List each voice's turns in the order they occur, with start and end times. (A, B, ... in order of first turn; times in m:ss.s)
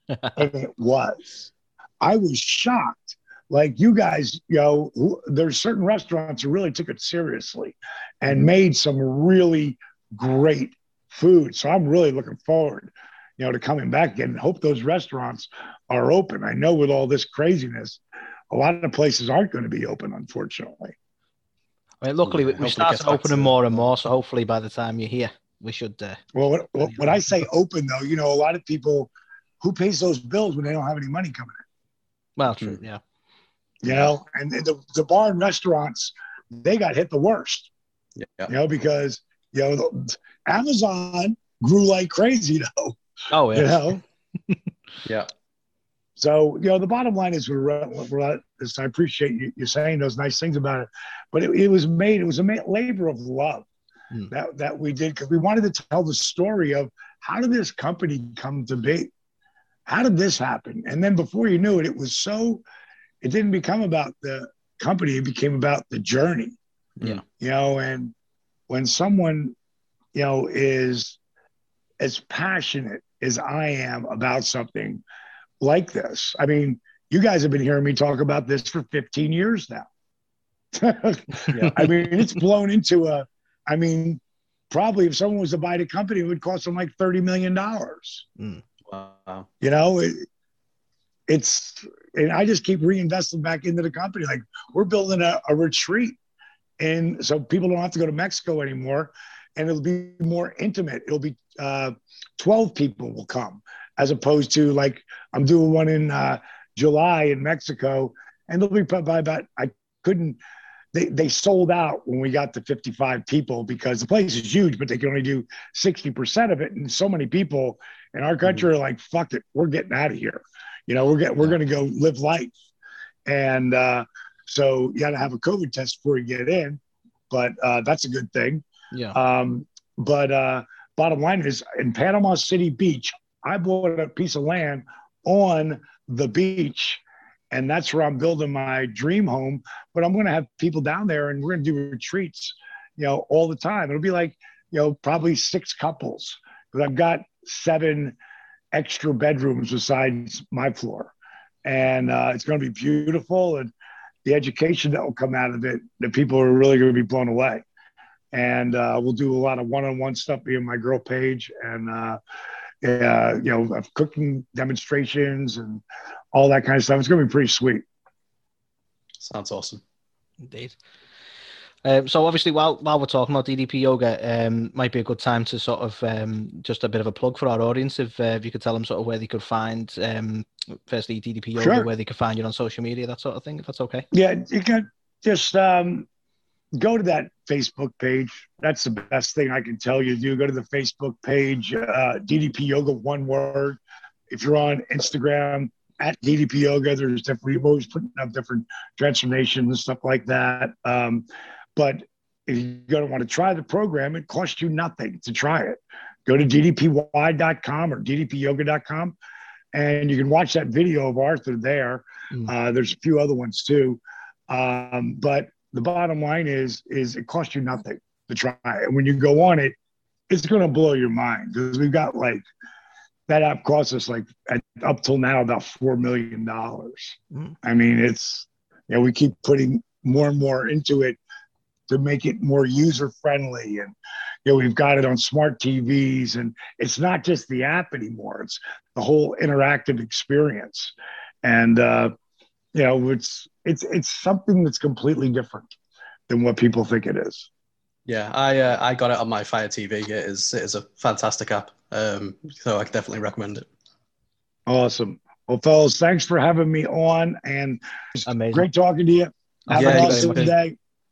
0:00.3-0:20.9 A
0:22.0-0:26.2 B
0:22.2-0:23.8 C
0:26.3-0:31.6 A
0:32.4-0:33.0 B
0:32.5-0:32.8 C
0:33.8-0:37.7 A
0:38.2-0:38.5 C
0:38.5-0:43.0 A
0:43.3-0:44.0 B
0:43.5-0:44.0 A
0:45.0-0:45.3 C
0:46.2-0:53.7 A
0:54.3-0:59.1 A
0:59.9-1:02.6 A
1:03.2-1:06.6 A
1:07.3-1:08.1 A
1:08.7-1:09.5 A
1:10.1-1:11.2 A
1:12.0-1:15.0 A
1:15.6-1:19.9 A
1:20.7-1:28.2 A
1:21.5-1:21.9 C
1:28.8-1:29.5 C
1:29.6-1:30.2 A
1:31.3-1:36.2 A
1:36.8-1:50.4 A
1:50.9-2:02.5 A
2:03.2-2:06.8 A
2:07.3-2:28.2 A
2:08.9-2:09.2 B
2:28.7-2:31.1 A
2:31.6-2:33.7 A
2:34.2-2:37.6 A
2:38.3-2:42.2 A
2:42.8-2:47.8 A
2:49.2-2:49.8 C
2:50.4-2:50.7 B
2:51.8-3:04.0 B
3:01.6-3:01.9 A
3:04.1-3:06.1 A
3:06.8-3:13.8 A
3:14.3-3:29.2 A
3:29.7-3:39.8 A
3:40.3-3:42.4 A
3:43.3-3:51.2 A
3:51.9-4:02.1 A
4:02.7-4:05.7 A
4:06.3-4:07.5 A
4:08.0-4:13.7 C
4:14.7-4:20.8 A
4:18.2-4:18.6 B
4:19.7-4:20.5 B
4:19.7-4:20.5 C